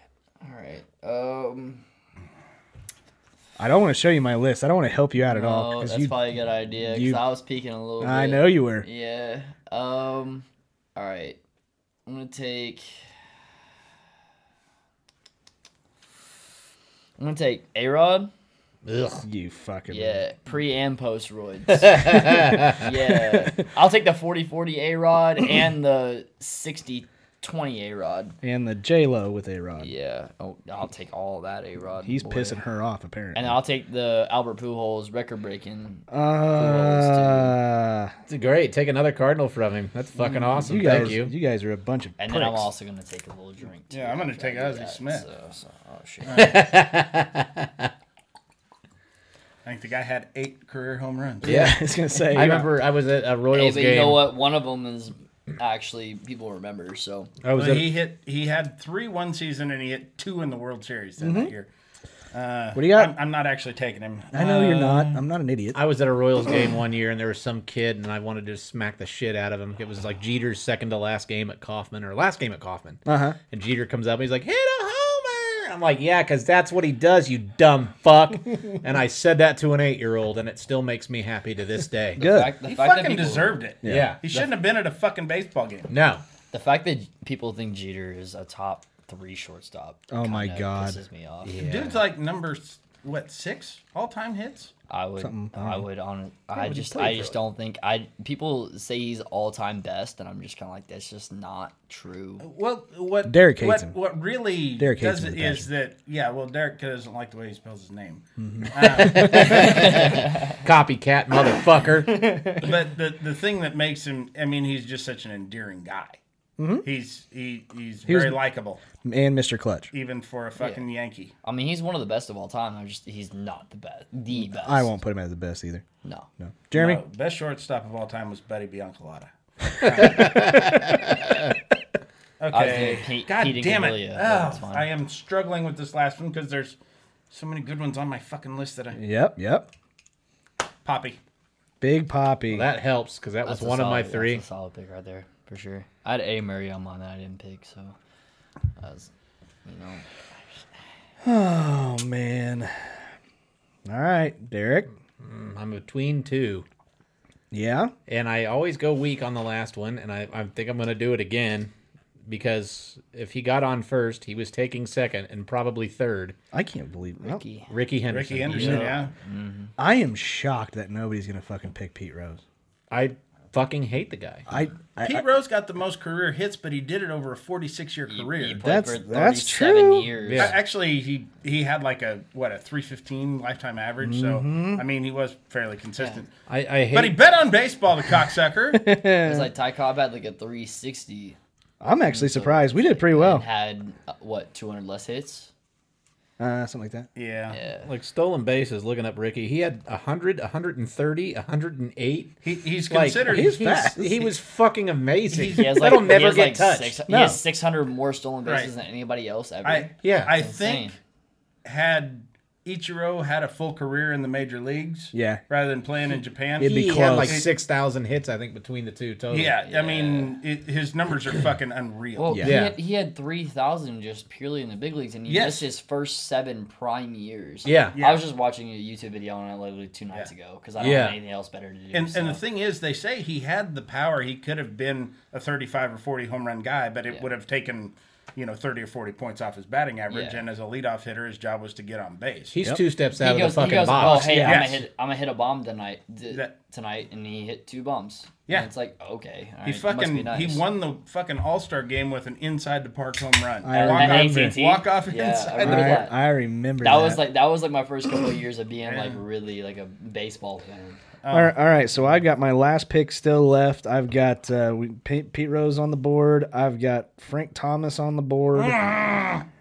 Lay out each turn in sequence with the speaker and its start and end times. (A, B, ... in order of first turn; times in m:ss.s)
0:00.4-0:01.8 A
0:03.6-0:06.1 B
0:05.2-0:11.4 A
0:06.8-0:07.2 B
0:08.0-0:08.8 B
0:12.0-0:13.0 A
0:17.2-0:18.3 A
0:18.8-0:19.2 C
0:19.2-0:20.2 B
0:19.9-0:28.4 A
0:21.7-0:22.8 C
0:28.4-0:29.9 B
0:29.8-0:32.6 A
0:32.0-0:33.5 B
0:33.3-0:37.6 A
0:36.1-0:38.1 B
0:38.3-0:41.3 C
0:40.6-0:42.7 B
0:42.2-0:46.6 A
0:43.9-0:45.2 D
0:46.2-0:46.6 D
0:46.4-0:47.9 C
0:49.6-0:51.7 D
0:51.4-0:52.7 B
0:51.4-0:54.3 C
0:53.5-0:57.3 A
0:57.4-0:57.9 C
0:57.5-1:01.7 D
1:01.2-1:01.5 B
1:02.3-1:05.2 D
1:02.7-1:03.1 B
1:04.3-1:05.8 B
1:05.7-1:22.2 C
1:13.0-1:13.4 B
1:22.2-1:22.5 B
1:22.2-1:23.6 A
1:22.6-1:25.9 D
1:23.8-1:24.1 B
1:23.8-1:24.5 C
1:25.9-1:26.2 C
1:26.5-1:31.6 A
1:30.1-1:31.0 B
1:31.4-1:32.0 C
1:31.6-1:34.7 D
1:34.9-1:42.4 A
1:35.2-1:35.8 B
1:36.6-1:37.3 B
1:42.4-1:50.0 D
1:43.2-1:43.9 B
1:44.8-1:45.7 B
1:48.4-1:49.9 B
1:48.8-1:52.5 C
1:49.6-1:50.5 A
1:52.2-1:52.6 B
1:52.6-1:56.2 D
1:56.6-1:56.8 B
1:56.8-1:58.8 D
1:58.0-1:58.4 B
1:59.0-1:59.9 B
1:59.9-2:01.3 D
2:01.4-2:04.9 A
2:04.3-2:05.8 B
2:06.4-2:07.0 B
2:06.7-2:10.4 D
2:10.0-2:11.5 C
2:12.4-2:16.8 D
2:12.5-2:14.9 A
2:17.3-2:19.0 D
2:18.9-2:19.7 B
2:20.8-2:21.2 D
2:21.8-2:22.7 B
2:22.5-2:24.4 C
2:23.4-2:28.0 A
2:28.8-2:29.1 A
2:29.6-2:30.0 A
2:31.2-2:32.9 B
2:33.8-2:34.9 B
2:35.2-2:36.6 C
2:37.5-2:37.9 B
2:38.1-2:41.7 C
2:42.3-2:46.3 C
2:46.5-2:47.4 B
2:47.2-2:47.7 A
2:47.7-2:48.9 C
2:48.1-2:49.1 D
2:48.5-2:49.7 A
2:49.8-2:52.4 B
2:52.9-2:54.4 C
2:54.5-2:55.2 B
2:55.0-2:58.7 D
2:58.1-3:00.5 A
2:58.6-3:00.1 B
3:00.2-3:00.6 C
3:00.4-3:06.3 D
3:04.0-3:04.8 B
3:06.5-3:07.2 C
3:06.9-3:08.8 D
3:08.7-3:09.5 B
3:09.2-3:11.4 A
3:11.8-3:13.4 B
3:12.0-3:15.5 A
3:16.4-3:17.1 B
3:17.2-3:17.6 D
3:17.5-3:17.9 A
3:17.8-3:27.0 C
3:22.4-3:23.5 D
3:23.2-3:24.3 B
3:25.3-3:26.0 D
3:25.5-3:31.0 A
3:27.1-3:27.4 B
3:28.4-3:28.7 D
3:29.6-3:30.9 D
3:30.0-3:30.3 C
3:31.6-3:37.5 D
3:35.1-3:35.4 B
3:36.6-3:37.4 B
3:36.6-3:39.5 C
3:39.3-3:42.4 D
3:39.6-3:40.3 A
3:42.2-3:52.4 A
3:42.4-3:42.8 C
3:45.3-3:45.7 D
3:47.6-3:48.0 C
3:47.9-3:48.2 D
3:50.8-3:51.2 C
3:51.9-4:02.5 D
4:00.1-4:00.4 A
4:02.5-4:04.5 C
4:03.2-4:10.6 A
4:04.0-4:04.7 B
4:04.4-4:04.8 D
4:09.6-4:16.1 D
4:13.6-4:14.6 B
4:13.7-4:16.2 A
4:15.6-4:17.2 B
4:16.8-4:21.0 A
4:18.8-4:19.2 D
4:21.2-4:21.6 D
4:21.3-4:29.0 B
4:28.6-4:29.4 D